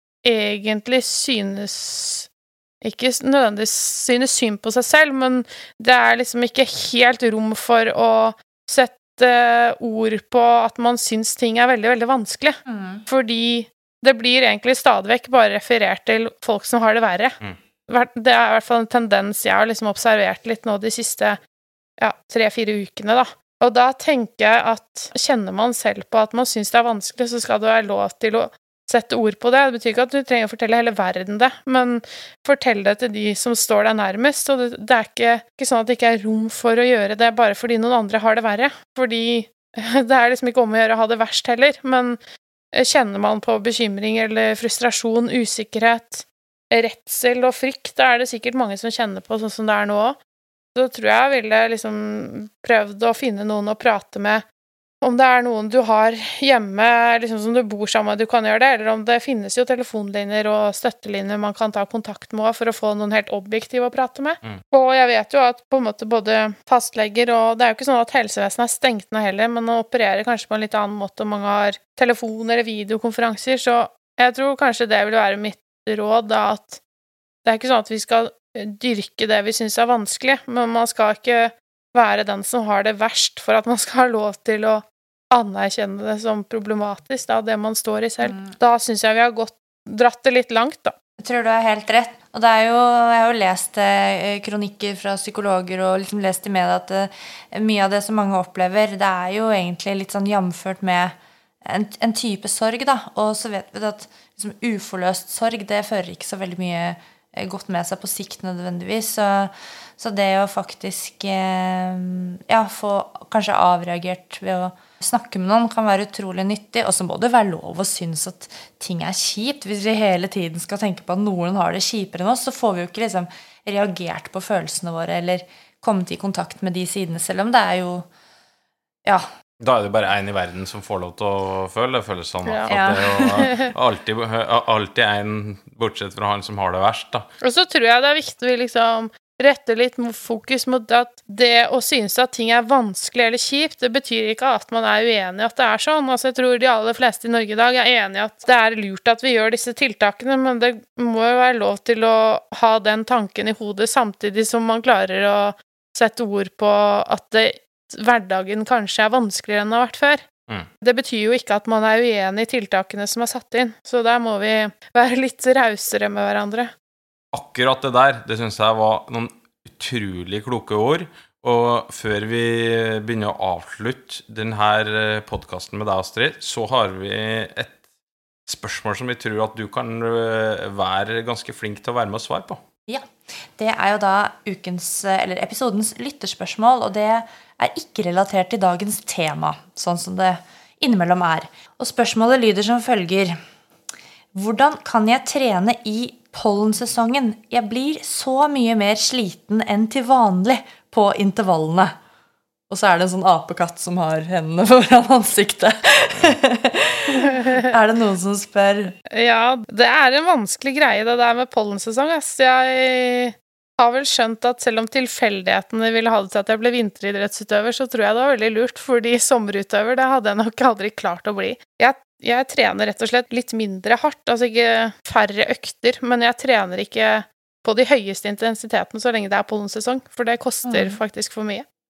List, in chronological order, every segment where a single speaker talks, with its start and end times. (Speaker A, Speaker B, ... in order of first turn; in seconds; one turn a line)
Speaker A: 0.2-2.3
Speaker A: 2.8-17.4
Speaker B: 12.7-13.0
Speaker A: 17.9-21.4
Speaker A: 22.0-42.2
Speaker A: 42.7-50.2
Speaker A: 50.7-54.4
Speaker A: 55.0-76.8
Speaker A: 77.4-90.9
Speaker B: 88.2-88.5
Speaker B: 91.2-101.1
Speaker B: 101.6-128.1
Speaker C: 129.6-137.2
Speaker A: 132.4-132.7
Speaker B: 132.7-133.5
Speaker A: 133.3-133.7
Speaker A: 137.4-160.2
Speaker A: 160.8-166.7
Speaker C: 167.3-177.8
Speaker C: 178.5-182.6
Speaker B: 182.9-193.4
Speaker B: 194.3-201.9
Speaker B: 202.7-208.9
Speaker A: 207.2-207.6
Speaker A: 209.1-231.6
Speaker B: 230.7-231.0